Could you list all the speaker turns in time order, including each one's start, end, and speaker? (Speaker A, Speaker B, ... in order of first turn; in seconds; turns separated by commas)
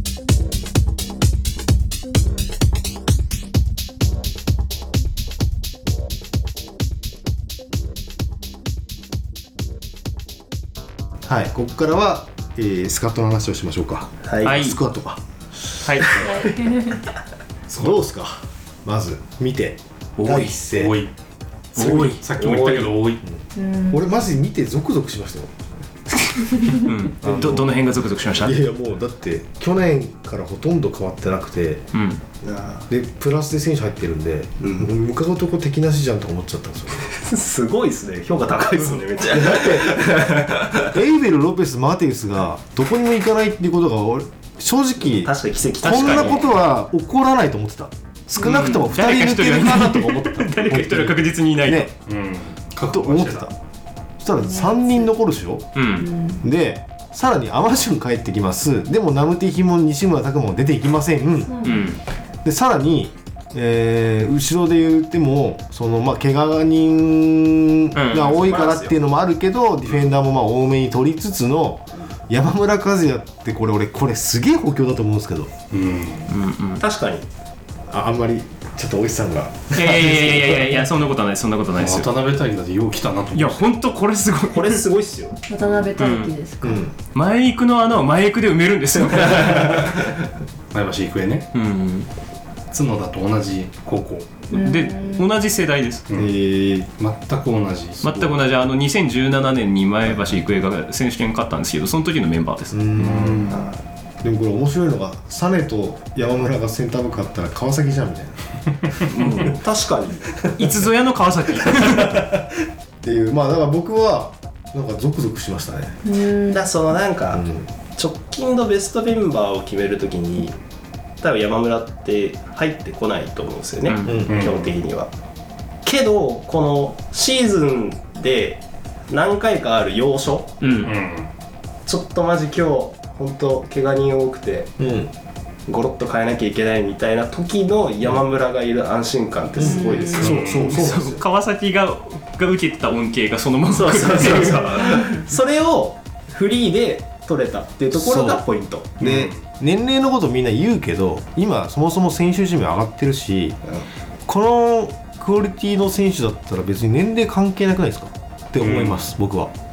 Speaker A: 0.3-0.6, Speaker B: 11.2-15.2, Speaker C: 14.2-14.6, Speaker D: 14.4-14.8, Speaker B: 15.7-16.4, Speaker D: 15.8-16.2, Speaker E: 16.3-17.0, Speaker A: 17.7-18.0, Speaker B: 17.8-21.0, Speaker D: 20.2-20.5, Speaker A: 20.7-21.1, Speaker A: 21.7-23.2, Speaker D: 21.7-22.2, Speaker C: 21.8-23.0, Speaker E: 23.5-24.0, Speaker B: 23.9-25.5, Speaker D: 26.3-28.6, Speaker B: 27.2-27.8, Speaker B: 28.3-31.8, Speaker D: 31.9-32.2, Speaker C: 32.4-32.9, Speaker B: 32.9-37.0, Speaker C: 34.6-34.9, Speaker C: 37.1-40.9, Speaker B: 39.2-40.1, Speaker B: 40.8-51.9, Speaker C: 45.2-46.5, Speaker D: 45.8-46.4, Speaker D: 48.4-51.9, Speaker A: 52.1-53.5, Speaker B: 52.9-53.5, Speaker B: 54.2-55.8, Speaker E: 54.3-55.1, Speaker D: 55.7-56.1, Speaker E: 56.0-56.4, Speaker B: 56.4-61.7, Speaker E: 61.4-61.9, Speaker D: 61.6-62.0, Speaker B: 62.4-75.5, Speaker D: 67.9-68.3, Speaker C: 68.1-68.9, Speaker A: 75.7-76.3, Speaker D: 76.3-76.8, Speaker C: 76.8-77.2, Speaker B: 77.9-80.8, Speaker D: 79.7-82.1, Speaker A: 81.8-83.6, Speaker D: 83.3-84.8, Speaker C: 84.5-85.4, Speaker E: 85.5-86.8, Speaker D: 86.0-86.3, Speaker B: 86.6-86.9, Speaker D: 87.1-89.9, Speaker A: 90.7-91.5, Speaker D: 91.5-92.1, Speaker A: 92.7-94.3, Speaker D: 94.5-96.1, Speaker E: 94.5-95.2, Speaker A: 96.1-96.3, Speaker B: 96.2-96.9, Speaker A: 97.0-98.3, Speaker D: 98.0-102.8, Speaker B: 102.7-103.7, Speaker A: 103.0-103.6, Speaker C: 103.5-103.8, Speaker B: 104.2-108.4, Speaker D: 109.1-109.6, Speaker C: 109.5-110.5, Speaker D: 110.4-112.3, Speaker B: 111.7-116.0, Speaker E: 116.0-116.7, Speaker C: 116.5-120.6, Speaker B: 117.3-117.7, Speaker C: 121.2-125.1, Speaker D: 123.8-124.2, Speaker B: 124.0-124.5, Speaker A: 124.3-124.7, Speaker C: 125.8-130.9, Speaker D: 130.6-130.9, Speaker A: 130.8-131.3, Speaker C: 131.8-134.7, Speaker B: 134.8-135.1, Speaker C: 135.7-140.4, Speaker B: 139.6-141.2, Speaker E: 139.6-140.3, Speaker A: 140.2-140.7, Speaker D: 140.5-145.1, Speaker C: 143.7-149.1, Speaker D: 147.9-148.4, Speaker B: 149.0-153.6, Speaker A: 149.0-149.4, Speaker B: 154.3-159.5, Speaker A: 158.6-159.1